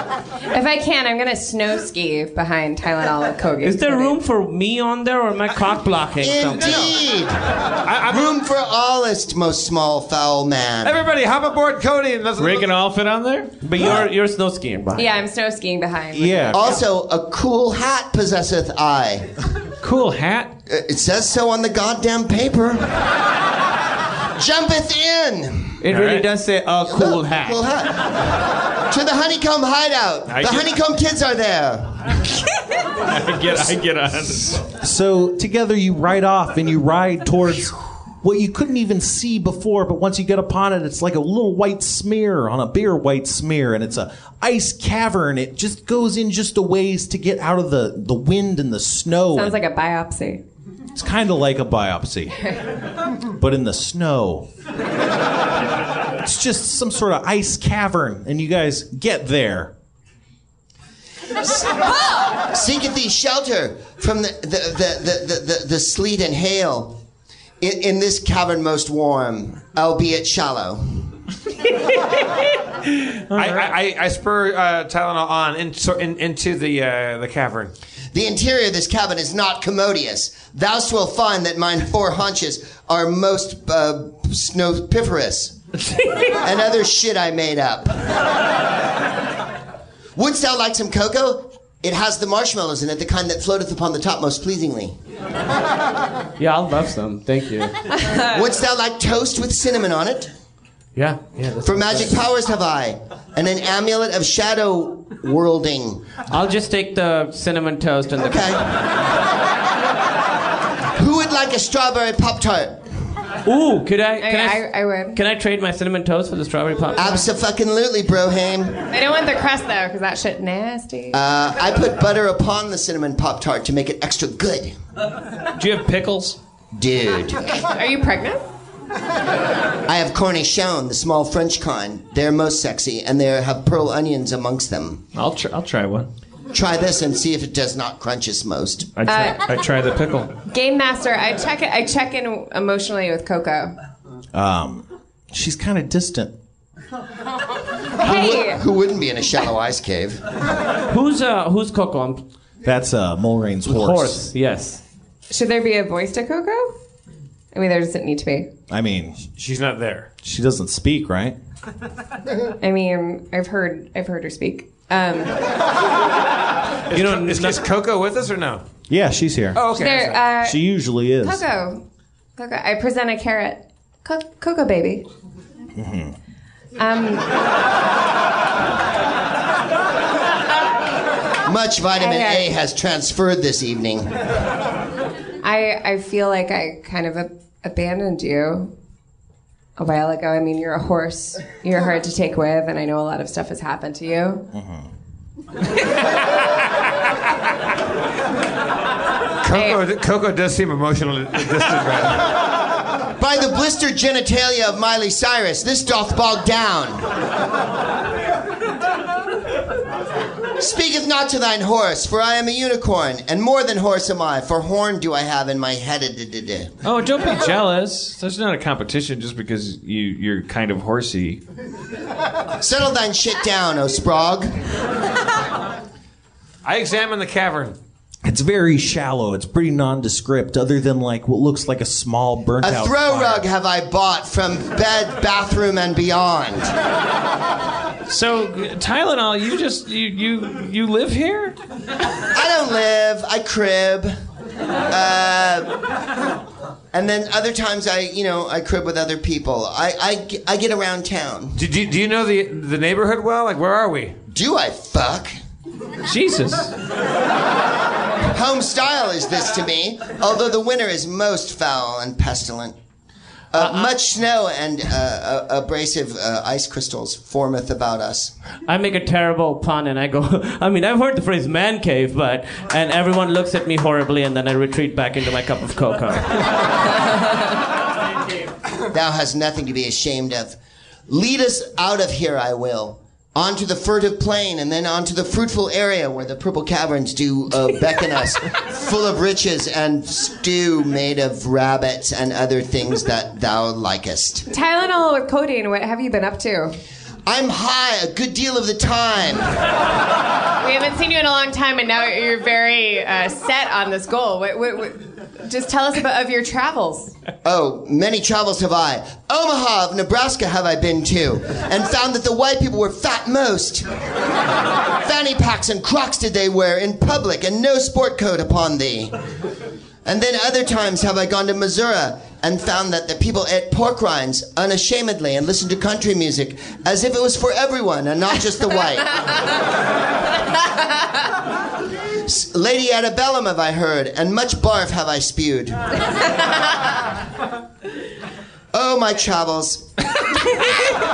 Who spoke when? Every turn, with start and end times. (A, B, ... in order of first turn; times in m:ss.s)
0:00.5-0:04.2 A
0:03.6-0:06.9 B
0:06.2-0:11.0 C
0:07.8-0:08.3 D
0:10.8-0:12.7 D
0:12.4-0:13.5 E
0:13.6-0:15.1 B
0:15.0-0:16.7 A
0:16.1-0:16.8 F
0:16.5-0:19.3 C
0:19.8-0:20.5 E
0:20.7-0:23.1 C
0:24.4-0:25.8 C
0:25.8-0:27.6 B
0:25.9-0:26.3 E
0:26.9-0:32.2 C
0:30.3-0:30.7 E
0:33.0-0:34.7 E
0:34.6-0:49.6 F
0:49.3-0:50.4 A
0:50.9-0:52.4 F
0:53.4-0:54.5 F
0:56.2-0:59.7 F
1:01.4-1:07.0 C
1:07.6-1:11.1 C
1:13.3-1:13.8 E
1:13.3-1:17.7 D
1:18.1-1:25.6 C
1:26.3-1:28.0 C
1:30.2-1:35.0 C
1:36.4-1:37.8 B
1:38.2-1:40.3 C
1:41.0-1:42.2 B
1:41.6-1:46.1 C
1:46.3-1:48.6 B
1:48.2-1:48.7 C
1:51.0-1:52.8 C
1:53.4-1:57.3 B
1:54.2-1:55.2 A
1:57.0-1:58.8 C
1:58.9-2:01.2 A
2:01.1-2:04.8 C
2:05.6-2:06.4 E
2:06.7-2:07.6 C
2:07.6-2:08.4 A
2:09.9-2:15.0 C
2:15.1-2:16.1 E
2:16.5-2:18.9 C
2:19.0-2:20.3 E
2:19.1-2:19.4 A
2:20.5-2:23.7 A
2:24.3-2:26.3 F
2:28.0-2:30.3 C
2:28.0-2:28.6 A
2:30.9-2:32.2 B
2:32.6-2:34.2 F
2:33.7-2:34.8 B
2:35.3-2:36.7 A
2:37.5-2:38.5 A
2:38.7-2:39.2 F
2:39.4-2:40.1 D
2:40.2-2:41.4 F
2:42.6-2:45.4 A
2:46.9-2:48.6 D
2:46.9-2:47.6 B
2:48.9-2:49.7 F
2:49.6-2:50.3 D
2:49.7-2:50.6 A
2:50.4-2:51.4 F
2:51.2-2:51.8 A
2:52.4-2:55.1 A
2:55.8-2:56.2 F
2:56.8-2:57.4 A
3:01.4-3:04.2 C
3:02.0-3:02.5 A
3:05.4-3:08.7 A
3:09.8-3:14.5 A
3:14.5-3:14.9 F
3:19.4-3:22.3 D
3:19.5-3:19.8 A
3:23.2-3:27.2 C
3:30.6-3:36.7 C
3:36.8-3:41.4 E
3:42.6-3:44.6 C
3:46.6-3:47.8 D
3:48.2-3:53.4 F
3:52.6-3:56.7 C
3:58.1-4:01.6 E
4:02.3-4:04.1 C
4:04.9-4:05.8 C
4:06.9-4:11.6 C
4:11.6-4:14.2 D
4:14.3-4:15.4 C
4:16.1-4:16.7 E
4:18.3-4:22.8 C
4:23.5-4:28.3 C
4:23.6-4:23.9 B
4:28.7-4:36.5 B
4:38.9-4:40.6 C
4:41.1-4:54.5 C
4:54.5-4:56.8 A
4:57.3-4:59.5 C
5:00.6-5:07.1 A
5:07.4-5:13.9 C
5:15.0-5:19.2 C
5:20.0-5:29.1 C
5:32.2-5:35.9 C
5:38.7-5:39.9 C